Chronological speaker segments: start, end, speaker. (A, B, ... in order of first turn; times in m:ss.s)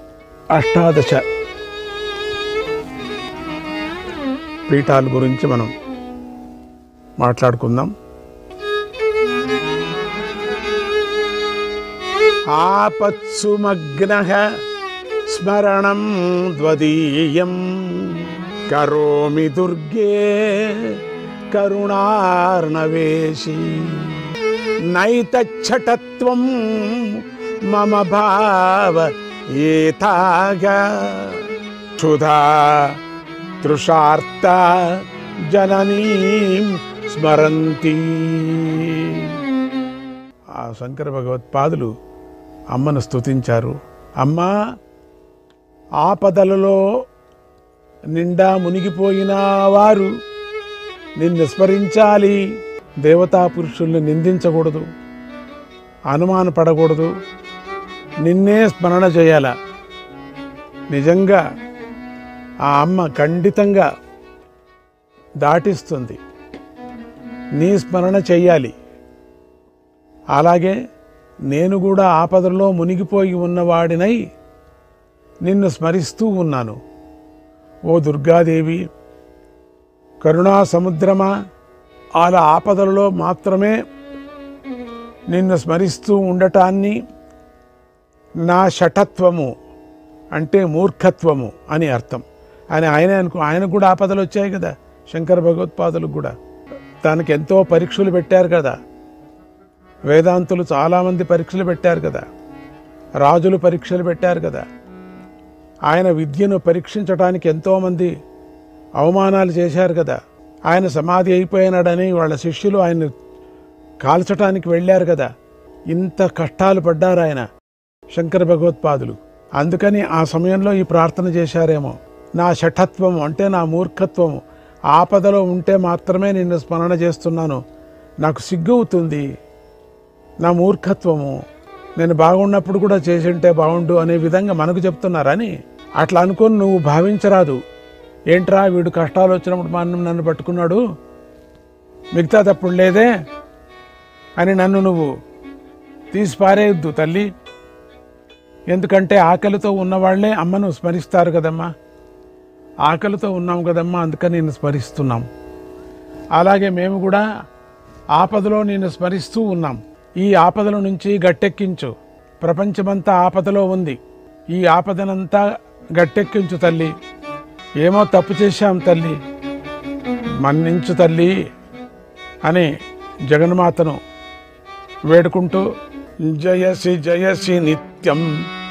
0:00.6-0:01.2 A
0:04.7-0:05.7 A
0:07.2-0:07.9 A
0:12.5-0:14.4 A
0:15.3-0:21.0 A
0:21.5-0:24.2 A
0:24.9-0:31.4 A
0:32.0-0:32.9 A
0:33.6-0:35.0 A
0:35.5-0:39.3 A
0:40.6-0:41.9 A
0:42.7-0:44.5 A
0:46.0-0:46.8 A
0:48.2-0:50.1 A
0:51.2-0:52.4 A
0:53.0-0:54.8 A
0:56.1-0:57.1 A
0:58.2-0:59.5 A
1:00.9-1:01.4 A
1:02.7-1:03.8 A
1:05.4-1:06.2 A
1:07.6-1:08.7 A
1:10.4-1:10.8 A
1:11.5-1:14.2 A
1:15.4-1:16.8 A
1:17.9-1:18.8 A
1:20.2-1:21.3 A
1:22.2-1:23.8 A
1:25.3-1:26.9 A
1:28.5-1:29.5 A
1:30.4-1:32.2 A
1:32.7-1:36.3 A
1:37.0-1:38.7 A
1:40.1-1:42.2 A
1:43.2-1:44.6 A
1:45.9-1:48.1 A
1:49.0-1:50.2 A
1:50.7-1:53.1 A
1:54.0-1:55.3 A
1:55.9-1:57.4 A
1:58.1-2:04.4 A
2:04.9-2:07.6 A
2:08.2-2:09.2 A
2:10.4-2:11.3 A
2:12.0-2:17.6 A
2:18.3-2:20.8 A
2:22.1-2:23.1 A
2:24.4-2:25.1 A
2:26.1-2:27.3 A
2:28.7-2:31.7 A
2:32.9-2:35.2 A
2:36.4-2:37.2 A
2:38.2-2:41.9 A
2:42.4-2:44.0 A
2:44.5-2:45.4 A
2:46.0-2:46.9 A
2:47.8-2:49.2 A
2:50.4-2:51.3 A
2:53.3-2:54.0 A
2:55.1-2:55.6 A
2:56.3-2:58.3 A